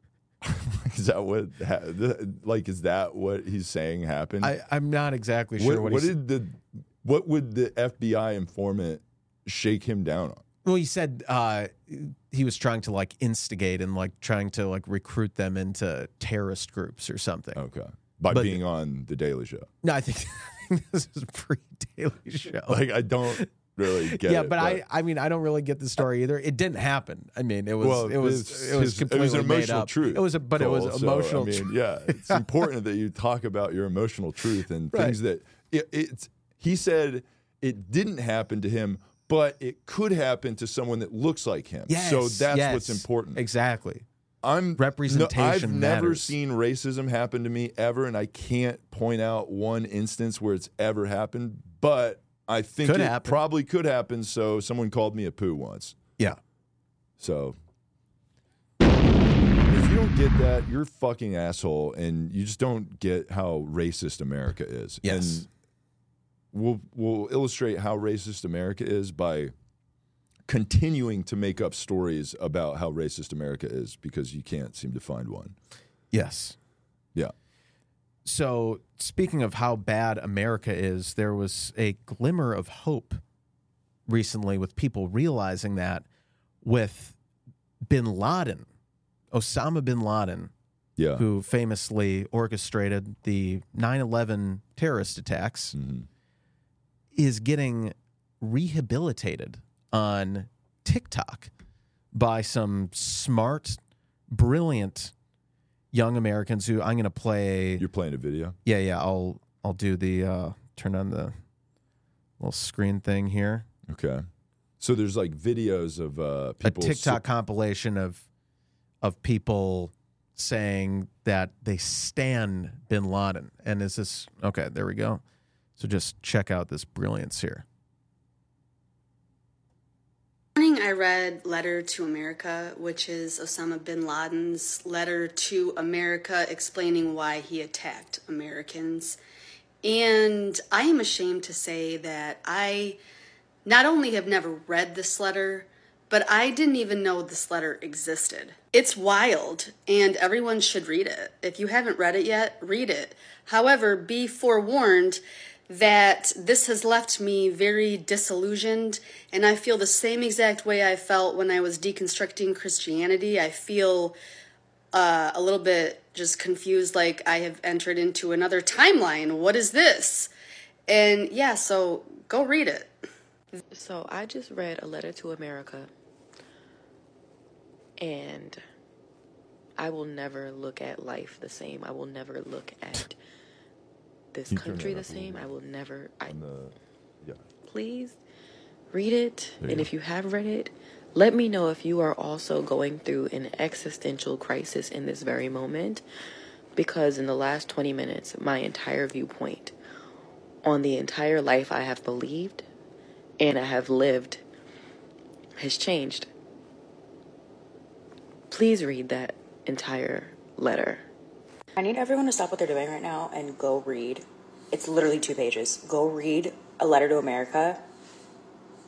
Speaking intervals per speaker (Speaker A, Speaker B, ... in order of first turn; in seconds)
Speaker A: 0.4-4.5, 5.6-10.4, 17.5-19.7, 22.7-24.8, 27.8-43.4, 44.4-56.0, 57.2-57.6, 59.7-65.5, 66.5-69.5, 70.5-75.5, 91.0-91.2, 95.7-96.1, 107.8-108.5, 113.9-114.2, 114.8-117.2, 184.5-185.5, 186.3-187.4, 189.6-189.9
Speaker B: 4.4-6.2, 10.6-17.6, 18.3-18.6, 19.8-32.4, 34.9-35.2, 41.9-44.0, 44.8-46.3, 52.8-53.4, 65.0-65.5, 76.1-76.6, 78.2-83.2, 84.1-86.0, 86.6-87.2, 87.8-88.7, 89.3-90.5, 91.2-95.8, 97.1-101.5, 102.1-103.8, 104.3-105.1, 105.9-107.8, 108.6-111.3, 112.4-113.7, 116.6-118.2, 119.0-125.2, 125.8-127.6
Speaker C: 130.6-139.2, 139.8-143.0, 143.6-164.2, 164.9-170.3, 170.9-172.9
Speaker D: 173.7-175.9, 178.0-178.6, 179.8-183.2, 184.3-186.3, 187.6-188.2, 188.9-196.0, 196.8-199.7, 200.6-202.6, 203.4-204.4, 205.6-206.3, 208.5-211.0
Speaker E: 211.8-217.8